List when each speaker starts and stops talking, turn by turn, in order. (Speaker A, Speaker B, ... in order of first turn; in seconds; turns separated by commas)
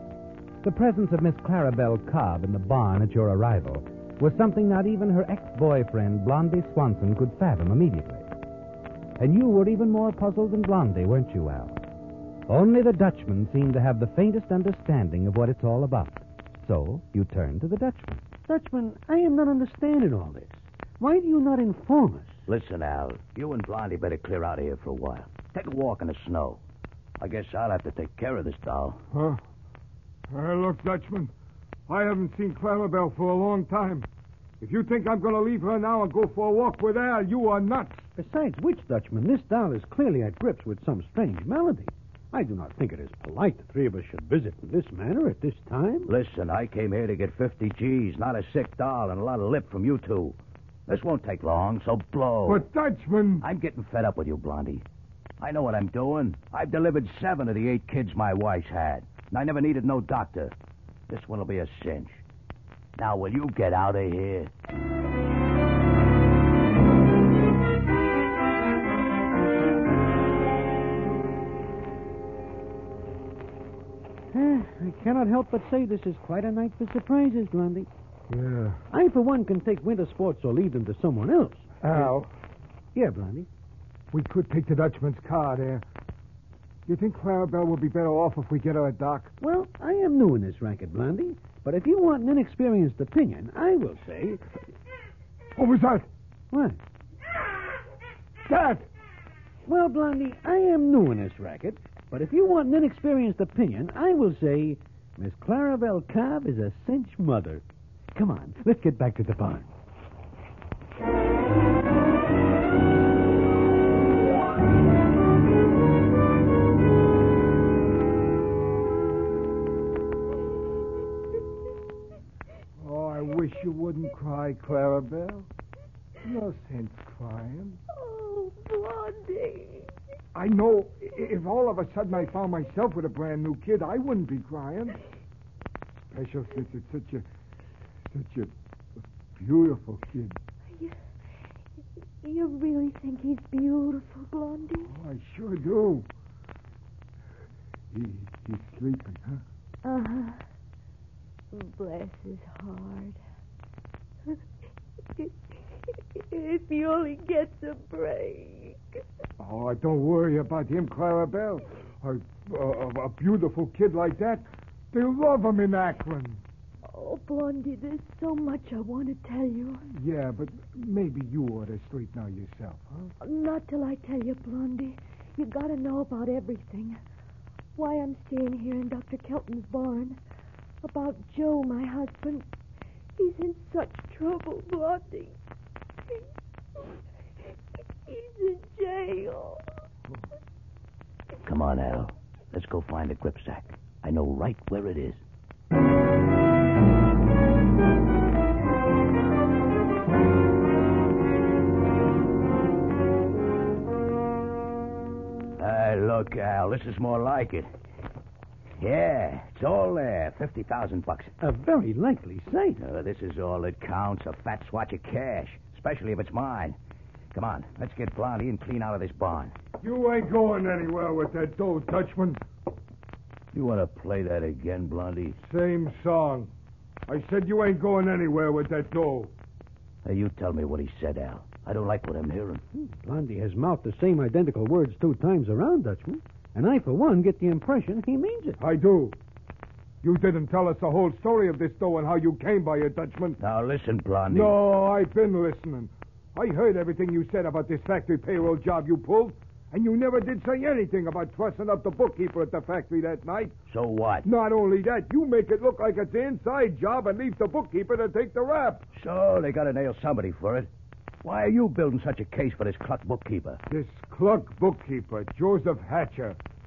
Speaker A: 0.6-8.3, Speaker A: 9.2-11.8, Speaker A: 12.5-18.2, Speaker B: 18.5-22.3, Speaker C: 22.5-26.6, Speaker C: 27.2-29.0, Speaker D: 29.1-29.4, Speaker D: 30.3-31.3, Speaker D: 31.9-34.1, Speaker D: 34.6-38.0, Speaker B: 38.1-46.1, Speaker C: 46.1-50.4, Speaker C: 50.9-52.6, Speaker D: 52.5-53.5, Speaker C: 53.4-54.8, Speaker C: 55.4-60.5, Speaker C: 61.1-62.2, Speaker C: 63.0-64.5, Speaker B: 74.3-77.9, Speaker D: 78.3-78.8, Speaker B: 78.9-82.1, Speaker D: 81.8-82.3, Speaker B: 82.9-83.5, Speaker D: 84.1-85.8, Speaker D: 86.9-89.3, Speaker B: 89.4-94.4, Speaker D: 95.5-96.1, Speaker B: 96.5-96.8, Speaker D: 98.4-98.8, Speaker B: 99.7-107.6, Speaker B: 108.1-109.7, Speaker D: 122.8-125.5, Speaker D: 126.2-127.8, Speaker E: 127.9-129.9, Speaker D: 130.3-135.0, Speaker D: 136.1-137.2, Speaker D: 138.1-138.5, Speaker D: 139.3-140.4, Speaker E: 142.2-144.9, Speaker D: 144.9-146.1, Speaker D: 147.9-149.4, Speaker E: 149.8-150.4, Speaker E: 151.5-153.2, Speaker E: 155.2-158.8, Speaker D: 159.4-166.4, Speaker E: 166.9-169.8, Speaker D: 169.9-173.1, Speaker E: 173.2-177.0, Speaker E: 177.7-180.2, Speaker E: 180.8-182.5, Speaker E: 183.2-185.3, Speaker E: 188.1-189.6, Speaker C: 191.4-195.2, Speaker C: 205.6-207.7, Speaker C: 208.8-211.3, Speaker B: 211.4-212.8, Speaker C: 212.8-216.8, Speaker C: 217.3-219.5, Speaker D: 219.8-222.4, Speaker C: 223.5-225.4, Speaker D: 225.4-226.5, Speaker D: 227.1-229.3, Speaker C: 230.0-232.6, Speaker B: 232.8-238.6, Speaker D: 238.6-239.2, Speaker D: 240.0-243.4, Speaker C: 243.4-244.5, Speaker D: 244.3-253.5, Speaker C: 253.7-254.3, Speaker D: 254.2-258.8, Speaker C: 258.9-260.7, Speaker C: 261.2-263.6, Speaker D: 263.7-266.4